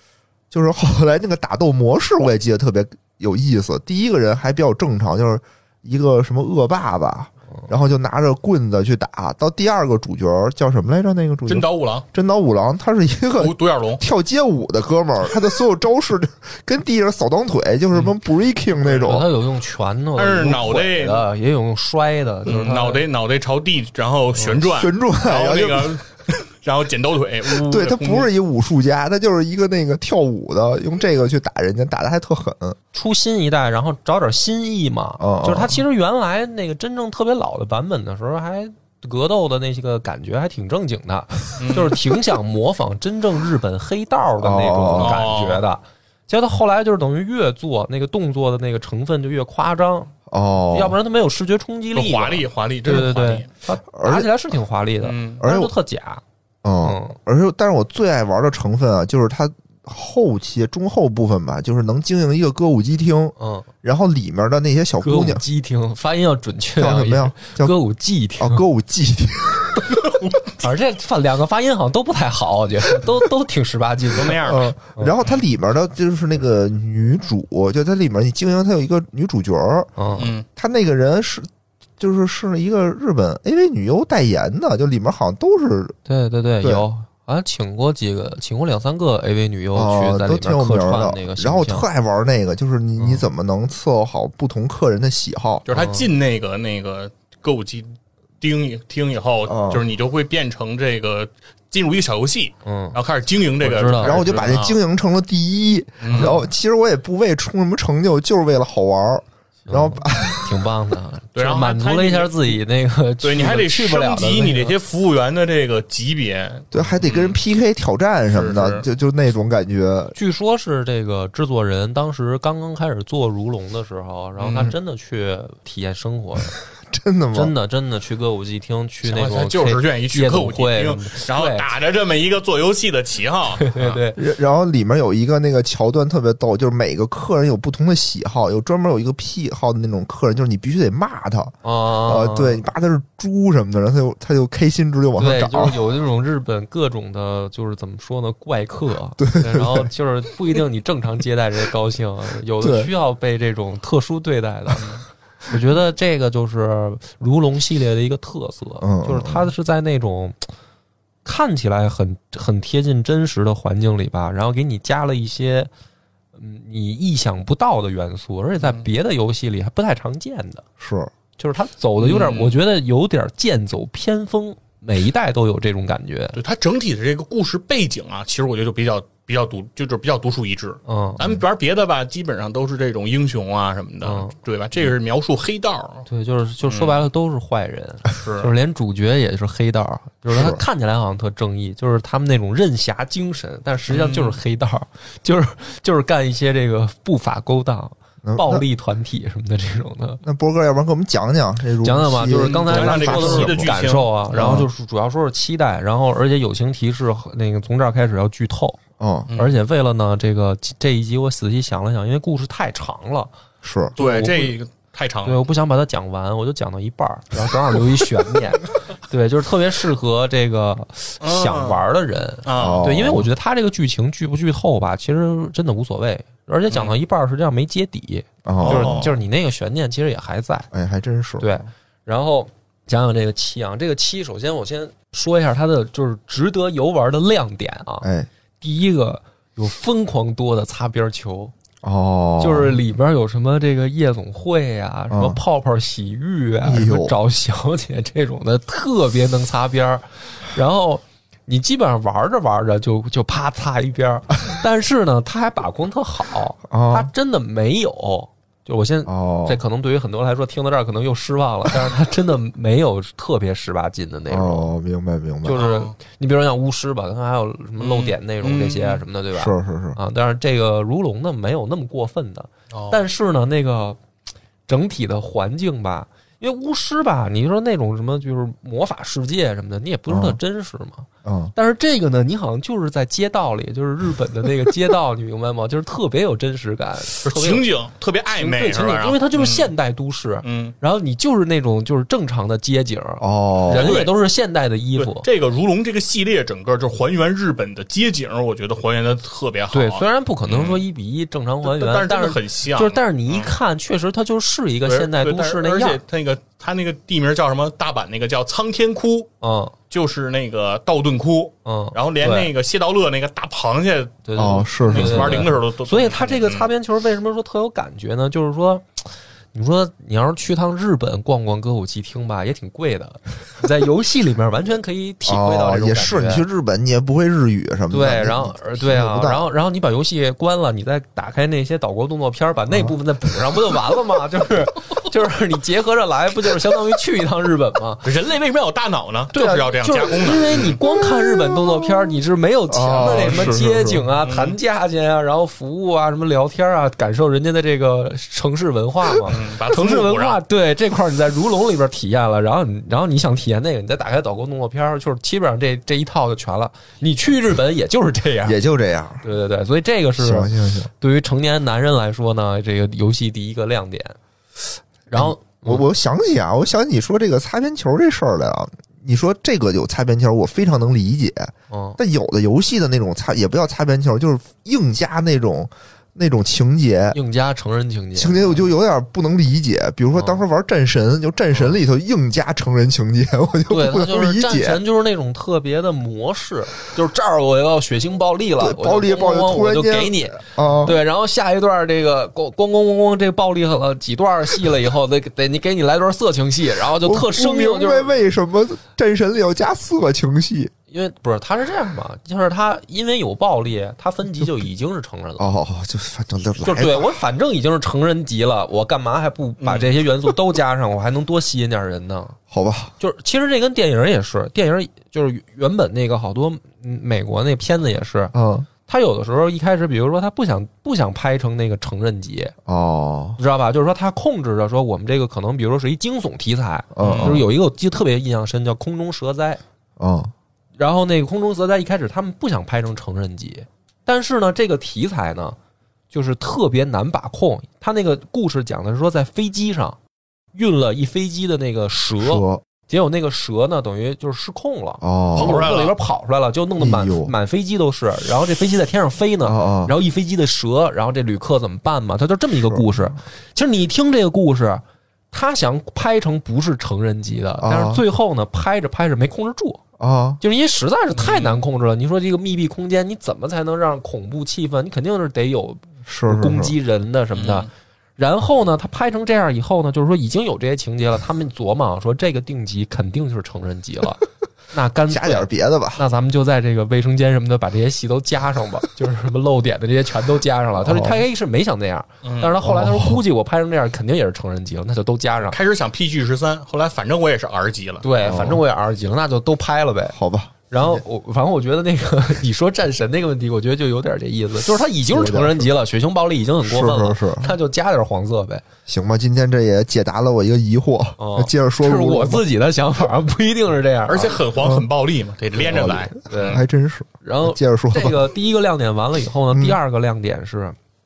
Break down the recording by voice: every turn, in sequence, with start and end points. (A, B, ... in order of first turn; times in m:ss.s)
0:00.5-0:19.3 A
0:11.5-0:12.0 B
0:13.4-0:14.0 B
0:18.8-0:23.0 C
0:20.2-0:21.2 B
0:22.4-0:28.3 B
0:24.6-0:26.0 A
0:27.5-0:32.8 A
0:32.9-0:50.1 C
0:35.2-0:35.8 A
0:41.6-0:42.0 B
0:44.4-0:45.3 A
0:45.0-0:45.6 B
0:50.3-0:51.0 A
0:50.7-0:56.2 C
0:51.9-0:53.5 B
0:53.9-0:54.3 A
0:55.0-0:55.4 B
0:55.4-0:55.8 A
0:56.6-1:05.4 A
0:56.8-0:57.2 C
1:03.4-1:03.7 C
1:05.0-1:08.6 C
1:06.8-1:07.7 A
1:08.4-1:10.0 A
1:10.6-1:14.4 C
1:14.1-1:14.7 B
1:14.4-1:19.9 A
1:20.0-1:20.3 C
1:20.2-1:20.4 B
1:20.6-1:26.0 A
1:26.0-1:31.8 C
1:29.7-1:35.6 A
1:33.0-1:33.2 C
1:35.6-1:44.8 B
1:35.7-1:36.1 C
1:39.5-1:39.8 A
1:42.6-1:43.0 C
1:43.6-1:44.2 C
1:43.9-1:50.6 A
1:46.0-1:46.4 B
1:46.1-1:46.4 C
1:49.7-1:54.7 C
1:51.3-1:52.6 B
1:53.2-1:57.4 B
1:56.7-2:00.1 A
1:58.3-1:58.8 B
2:00.1-2:06.5 C
2:04.4-2:04.7 B
2:06.9-2:07.5 A
2:07.3-2:11.6 C
2:09.0-2:14.0 B
2:13.6-2:14.2 C
2:14.2-2:25.8 A
2:21.6-2:22.6 C
2:25.2-2:34.9 C
2:29.2-2:29.9 A
2:32.6-2:32.9 A
2:35.5-2:40.4 C
2:38.8-2:39.5 A
2:41.2-2:45.7 C
2:46.3-2:50.6 C
2:50.8-2:51.1 A
2:51.4-2:56.4 C
2:52.0-2:52.6 B
2:56.3-3:06.0 B
3:00.8-3:01.2 C
3:04.0-3:04.3 C
3:06.1-3:20.2 C
3:06.6-3:07.0 B
3:08.1-3:08.5 B
3:10.3-3:10.6 A
3:13.9-3:14.4 B
3:18.2-3:18.6 A
3:20.2-3:23.7 A
3:21.8-3:28.8 C
3:22.4-3:24.6 B
3:24.3-3:24.7 A
3:29.0-3:29.3 A
3:29.3-3:29.6 B
3:29.4-3:33.3 C
3:33.6-3:33.9 A
3:33.9-3:34.5 C
3:34.0-3:35.4 B
3:35.2-3:50.7 C
3:41.2-3:41.8 B
3:42.4-3:42.9 B
3:42.6-3:43.3 A
3:48.4-3:49.0 A
3:48.6-3:49.2 B
3:50.7-3:51.6 A
3:51.4-3:58.1 C
3:58.0-3:58.3 A
3:58.6-4:01.5 C
4:01.8-4:02.8 A
4:02.4-4:24.7 C
4:05.1-4:05.4 A
4:06.6-4:07.1 A
4:16.7-4:17.1 A
4:19.1-4:19.6 A
4:24.3-4:25.6 A
4:25.4-4:34.0 C
4:25.5-4:25.9 B
4:27.8-4:29.0 B
4:29.3-4:30.0 A
4:32.7-4:33.0 B
4:34.7-4:47.6 C
4:40.1-4:40.4 A
4:41.2-4:41.5 A
4:47.2-4:49.7 B
4:48.4-4:55.3 C
4:50.4-4:50.7 B
4:53.2-4:54.0 A
4:53.7-4:54.2 B
4:55.0-5:00.8 B
4:59.7-5:06.0 C
5:01.6-5:03.5 B
5:04.8-5:09.3 B
5:09.4-5:09.7 C
5:09.9-5:16.7 B
5:11.6-5:12.5 C
5:14.2-5:26.4 C
5:14.4-5:15.5 A
5:25.2-5:29.5 A
5:27.9-5:38.1 C
5:32.7-5:33.0 A
5:38.0-5:40.8 B
5:39.3-5:58.6 C
5:40.8-5:42.1 A
5:42.7-5:44.0 A
5:43.0-5:43.6 B
5:44.2-5:44.6 B
5:49.3-5:50.4 B
5:58.4-5:59.2 A
5:59.2-6:04.2 C
6:00.2-6:00.9 A
6:05.1-6:05.8 C
6:05.1-6:17.2 A
6:11.7-6:12.0 C
6:17.1-6:18.6 C
6:18.2-6:24.8 A
6:20.1-6:20.4 C
6:21.5-6:21.8 C
6:23.7-6:38.2 C
6:28.6-6:31.0 A
6:37.0-6:40.7 A
6:40.9-6:45.5 C
6:45.4-6:47.1 A
6:46.6-6:52.4 C
6:49.6-6:49.9 B
6:52.5-6:52.9 A
6:53.0-6:58.3 C
6:58.3-6:58.7 A
6:58.9-7:02.5 C
7:02.6-7:03.4 A
7:03.4-7:09.6 C
7:06.9-7:07.5 A
7:07.0-7:07.4 B
7:10.0-7:10.3 A
7:10.8-7:15.6 C
7:16.1-7:20.0 C
7:20.5-7:39.8 C
7:22.2-7:22.6 A
7:25.0-7:25.7 A
7:25.3-7:25.9 B
7:26.8-7:27.3 A
7:29.4-7:29.9 A
7:32.6-7:32.9 A
7:37.6-7:38.0 A
7:40.0-7:40.4 A
7:40.4-8:05.6 C
7:41.2-7:41.6 B
7:46.0-7:46.7 A
7:47.3-7:47.7 B
7:55.1-7:56.0 A
8:00.8-8:01.2 A
8:02.2-8:02.5 B
8:02.6-8:03.2 A
8:05.5-8:08.0 B
8:08.0-8:10.2 C
8:08.2-8:08.6 A
8:10.1-8:11.0 A
8:10.7-8:18.6 C
8:15.1-8:15.7 A
8:16.6-8:17.5 A
8:18.9-8:22.4 A
8:21.2-8:24.4 C
8:24.1-8:26.6 B
8:24.6-8:24.8 A
8:25.6-8:28.3 A
8:26.3-8:26.6 C
8:27.2-8:30.8 C
8:29.5-8:29.8 A